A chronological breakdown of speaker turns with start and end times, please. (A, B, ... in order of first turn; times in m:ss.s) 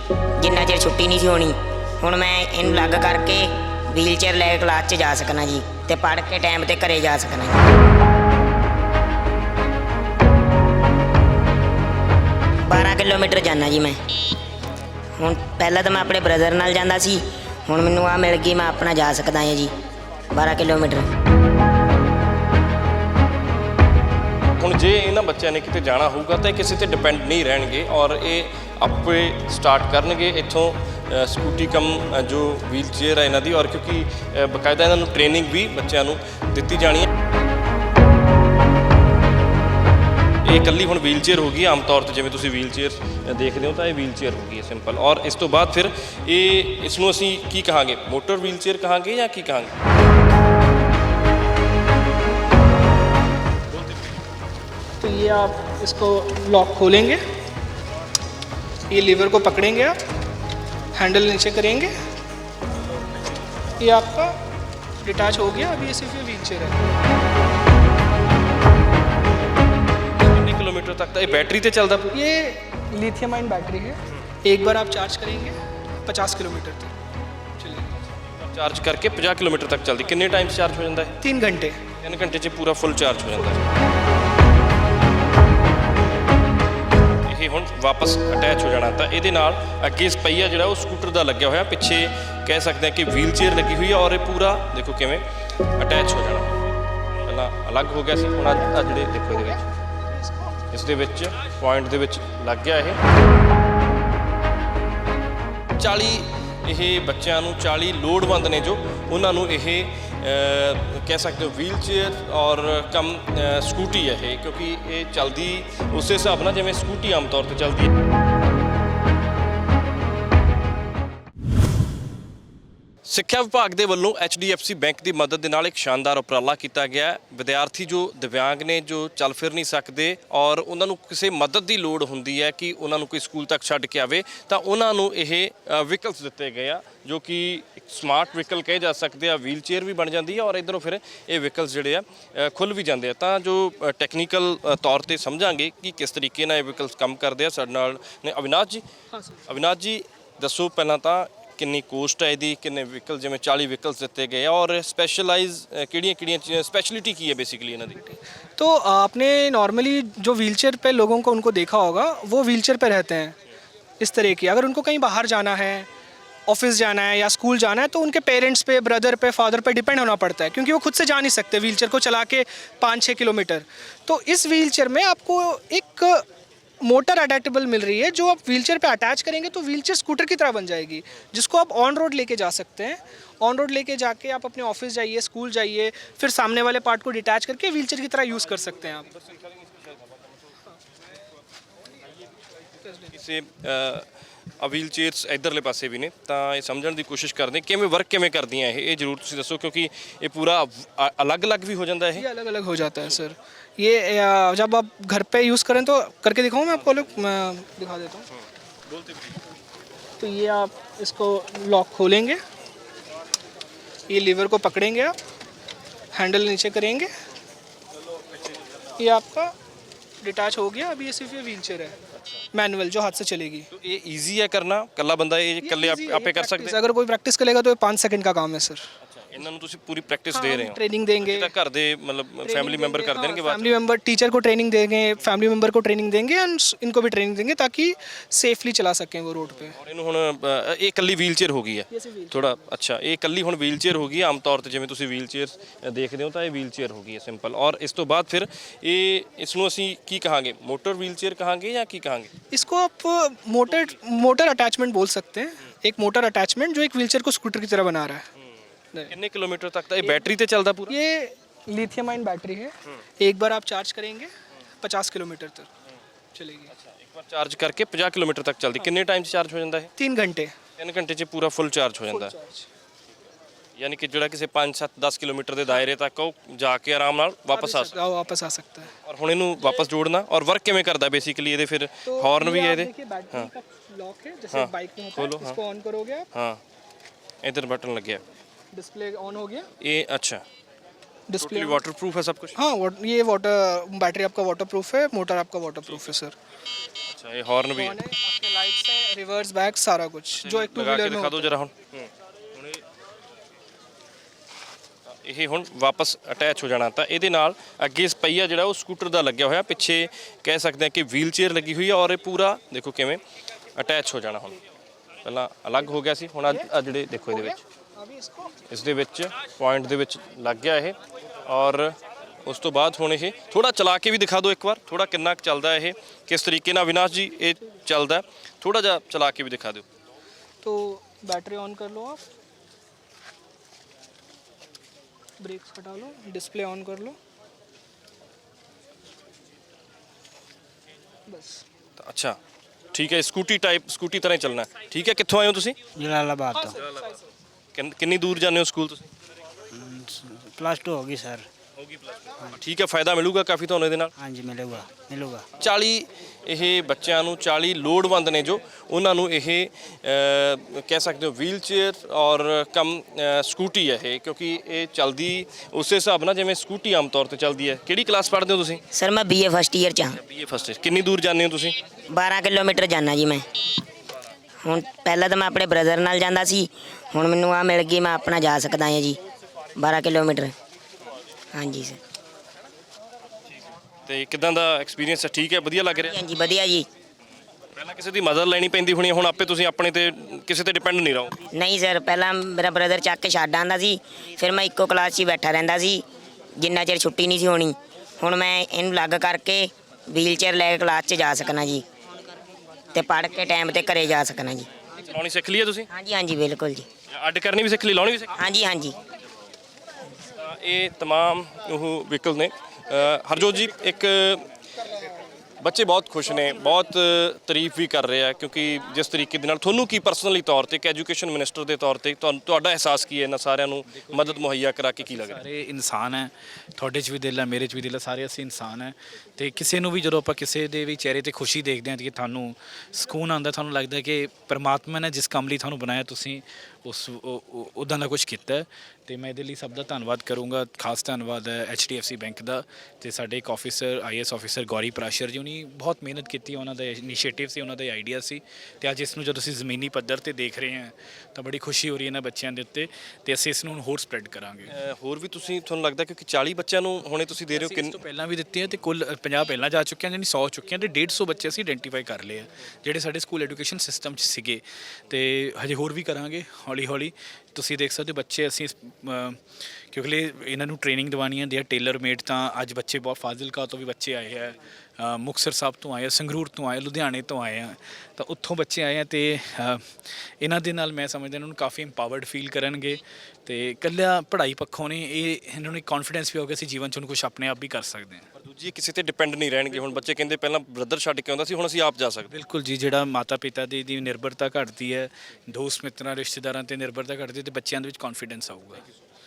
0:00.4-0:07.6 A
0:12.7-0:14.0 A
0:15.2-0:19.7 A
0:20.3-0:21.1 A
0:24.6-0:37.1 B
0:40.4-0:49.7 B
0:55.0-0:57.2 C
0:58.9-1:00.0 C
1:01.0-1:01.9 C
1:03.8-1:04.3 C
1:05.0-1:06.8 C
1:10.2-1:12.1 B
1:12.1-1:16.9 C
1:17.6-1:18.0 C
1:18.4-1:21.2 B
1:21.2-1:21.8 C
1:22.0-1:23.6 B
1:27.3-1:35.2 B
1:35.8-1:36.6 B
1:37.3-1:39.6 B
1:39.3-1:39.6 C
1:40.3-1:40.5 C
1:40.7-1:43.0 B
1:45.8-1:57.9 B
2:03.0-2:28.8 B
2:29.5-2:38.0 B
2:38.0-2:43.4 C
2:44.0-2:45.9 C
2:46.5-2:56.2 C
2:56.8-3:09.1 C
3:12.8-3:13.1 C
3:13.1-3:14.1 B
3:14.6-3:22.2 B
3:22.2-3:28.3 C
3:26.8-3:27.1 B
3:30.2-3:32.4 C
3:34.1-3:35.2 C
3:36.2-3:37.1 C
3:39.0-3:39.5 C
3:40.2-3:42.0 C
3:42.5-3:43.7 C
3:43.7-3:46.8 B
3:45.6-3:48.8 C
3:49.0-3:53.7 B
3:50.3-3:51.5 C
3:52.4-3:59.8 C
3:59.5-4:12.3 B
4:01.9-4:02.5 C
4:12.5-4:18.3 C
4:19.1-4:20.9 B
4:20.0-4:20.3 C
4:20.9-4:24.3 C
4:24.8-4:25.7 C
4:26.4-4:26.7 C
4:26.7-4:29.9 B
4:30.0-4:30.6 C
4:30.8-4:32.4 B
4:32.1-4:32.7 C
4:33.8-4:38.0 B
4:37.5-4:38.9 C
4:39.0-4:43.5 B
4:42.1-4:46.3 C
4:44.5-4:45.6 B
4:46.3-4:46.6 B
4:47.4-4:48.2 B
4:48.7-4:49.7 C
4:49.8-4:50.4 B
4:51.3-4:51.8 C
4:51.4-4:52.6 B
4:52.6-4:56.4 C
4:57.1-4:58.0 B
4:57.8-5:01.5 C
5:00.4-5:02.8 B
5:05.2-5:13.2 B
5:13.8-5:14.6 B
5:15.2-5:17.6 B
5:17.3-5:18.6 C
5:18.7-5:29.8 B
5:30.6-5:32.2 C
5:35.4-5:37.2 C
5:41.3-5:41.6 C
5:42.0-5:42.4 B
5:42.9-5:45.8 B
5:46.0-5:46.8 D
5:46.6-5:47.0 C
5:47.8-5:49.1 B
5:49.7-5:51.5 D
5:52.2-5:54.1 B
5:54.2-5:55.5 D
5:55.6-6:08.8 B
6:08.9-6:10.2 A
6:10.2-6:11.8 B
6:12.1-6:13.5 A
6:14.6-6:19.2 A
6:19.8-6:20.5 A
6:21.5-6:22.0 A
6:24.1-6:26.2 B
6:26.0-6:26.9 A
6:27.8-6:31.4 B
6:31.5-6:36.0 A
6:36.6-6:41.8 A
6:42.9-6:44.7 A
6:45.0-6:45.9 B
6:45.9-6:46.9 A
6:47.1-6:48.4 B
6:48.4-6:49.0 A
6:50.4-6:54.5 B
6:55.6-7:05.4 B
7:03.9-7:04.4 E
7:05.0-7:34.7 E
7:34.7-7:38.0 B
7:37.5-8:08.3 E
8:08.4-8:12.3 B
8:12.3-8:18.8 E